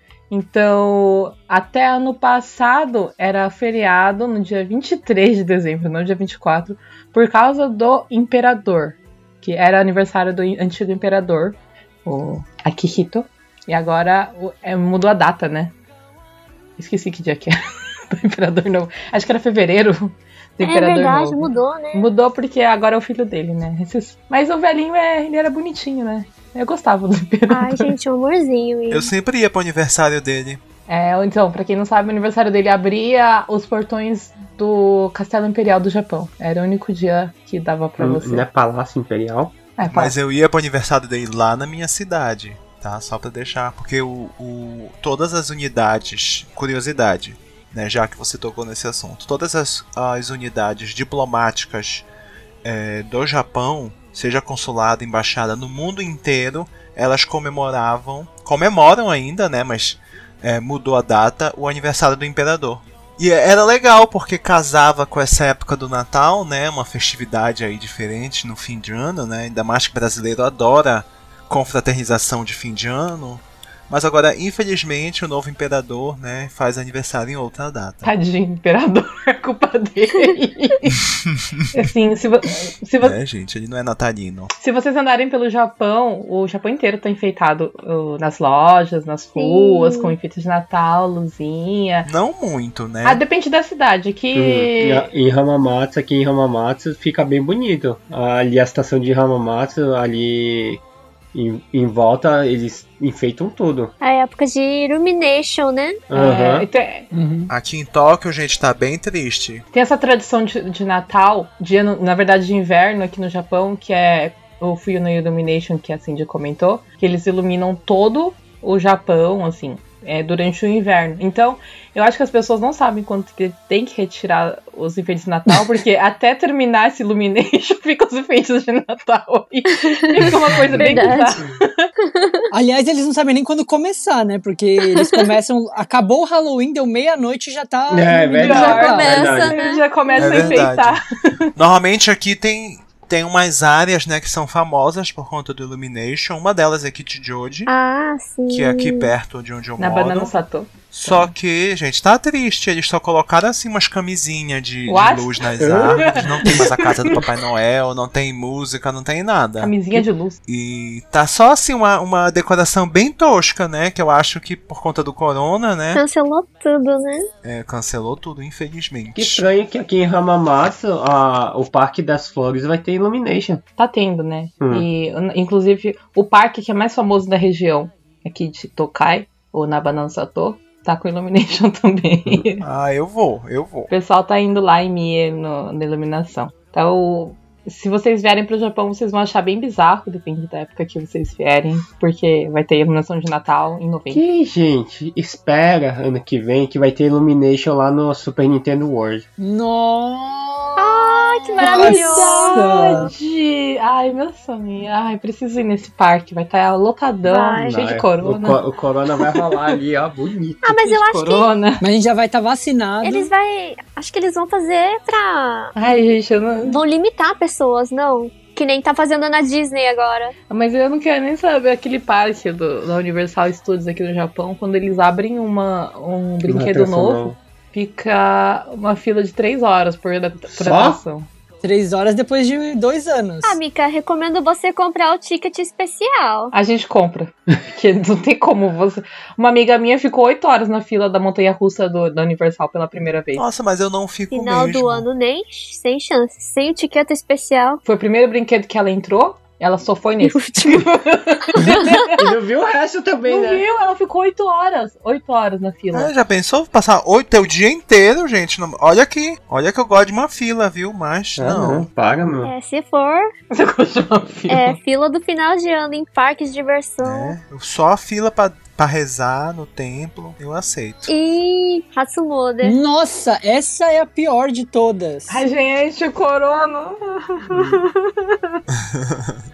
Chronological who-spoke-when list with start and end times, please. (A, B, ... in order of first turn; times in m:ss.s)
0:00.3-0:15.7 A
0:16.8-0:17.6 A
0:18.1-0:27.9 A
0:20.6-0:22.1 B
0:27.5-0:29.1 B
0:28.9-0:30.6 C
0:30.9-0:38.4 A
0:38.0-0:39.6 D
0:39.8-0:40.2 A
0:39.9-0:52.1 C
0:52.6-1:18.1 C
1:18.0-1:21.0 A
1:21.7-1:23.2 A
1:23.0-1:24.5 C
1:24.6-1:32.1 A
1:29.4-1:30.1 B
1:32.1-1:33.2 C
1:33.0-1:35.1 A
1:34.4-1:40.8 D
1:41.3-1:43.9 D
1:44.0-1:46.0 B
1:46.1-1:46.7 D
1:46.2-1:47.1 A
1:47.1-1:47.5 E
1:47.5-1:49.6 C
1:49.7-2:11.9 A
2:09.8-2:11.4 B
2:12.0-2:12.5 B
2:12.5-2:19.3 E
2:14.9-2:15.2 B
2:17.9-2:19.6 D
2:18.3-2:21.0 A
2:18.6-2:20.5 B
2:20.2-2:21.0 C
2:21.6-2:27.7 C
2:27.7-2:29.1 B
2:28.5-2:30.3 C
2:29.8-2:31.3 A
2:30.9-2:39.7 C
2:34.9-2:37.3 A
2:35.6-2:36.6 D
2:39.6-2:40.4 A
2:40.5-2:46.0 C
2:45.9-2:47.3 B
2:47.4-2:49.4 C
2:49.2-2:53.6 D
2:53.8-3:02.6 A
2:54.6-2:54.9 D
3:02.6-3:03.9 C
3:03.9-3:14.2 A
3:14.1-3:19.2 D
3:19.4-3:21.1 E
3:20.8-3:23.1 B
3:21.4-3:28.6 A
3:21.6-3:23.1 E
3:27.3-3:27.8 B
3:27.7-3:30.6 D
3:30.6-3:31.5 B
3:30.8-3:31.8 A
3:31.8-3:33.3 E
3:33.0-3:35.7 B
3:35.8-3:36.8 A
3:36.7-3:40.3 B
3:40.5-3:51.3 A
3:46.5-3:47.4 D
3:50.6-3:51.0 D
3:51.6-3:53.6 E
3:53.4-3:56.5 B
3:56.5-4:03.4 A
4:03.4-4:05.1 C
4:04.3-4:07.8 B
4:07.8-4:12.2 A
4:10.2-4:10.9 B
4:11.5-4:12.0 B
4:12.2-4:13.6 D
4:13.3-4:16.1 A
4:15.9-4:21.9 C
4:21.4-4:22.5 D
4:22.4-4:23.3 B
4:23.5-4:24.8 A
4:24.5-4:27.4 B
4:27.0-4:31.1 C
4:31.1-4:32.8 B
4:32.6-4:35.4 E
4:35.3-4:38.6 A
4:39.0-4:39.3 C